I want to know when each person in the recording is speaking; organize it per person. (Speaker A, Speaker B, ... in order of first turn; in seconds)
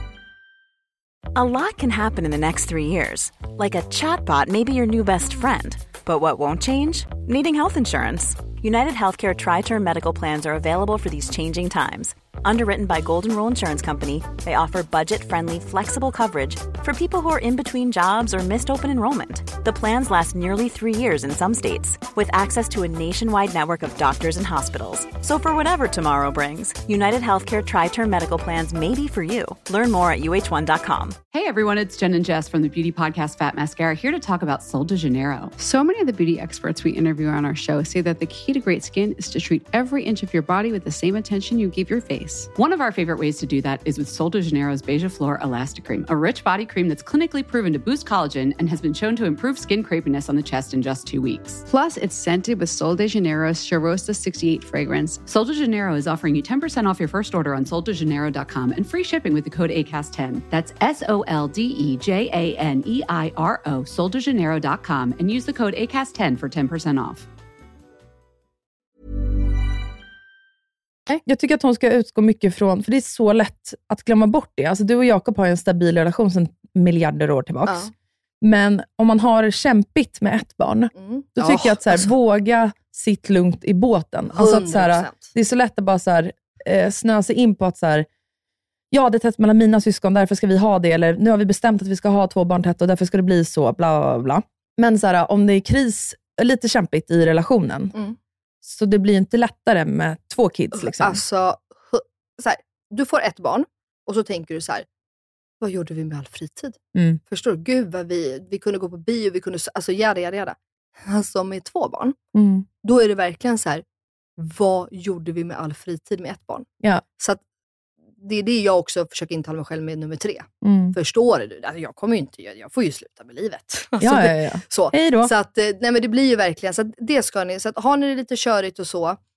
Speaker A: 1.4-31.2
Speaker B: 31.3-35.5, 42.6-51.6, 55.2-67.2
Speaker C: 35.6-42.5, 51.7-55.2
Speaker D: 71.2-77.9, 78.4-88.1, 88.9-97.9, 98.6-101.2, 106.9-107.2, 112.3-112.7, 120.6-121.0, 124.0-125.3
Speaker E: 80.9-82.1, 84.3-85.3, 100.8-104.8, 105.6-112.2, 112.8-113.8, 114.4-116.7, 118.2-129.2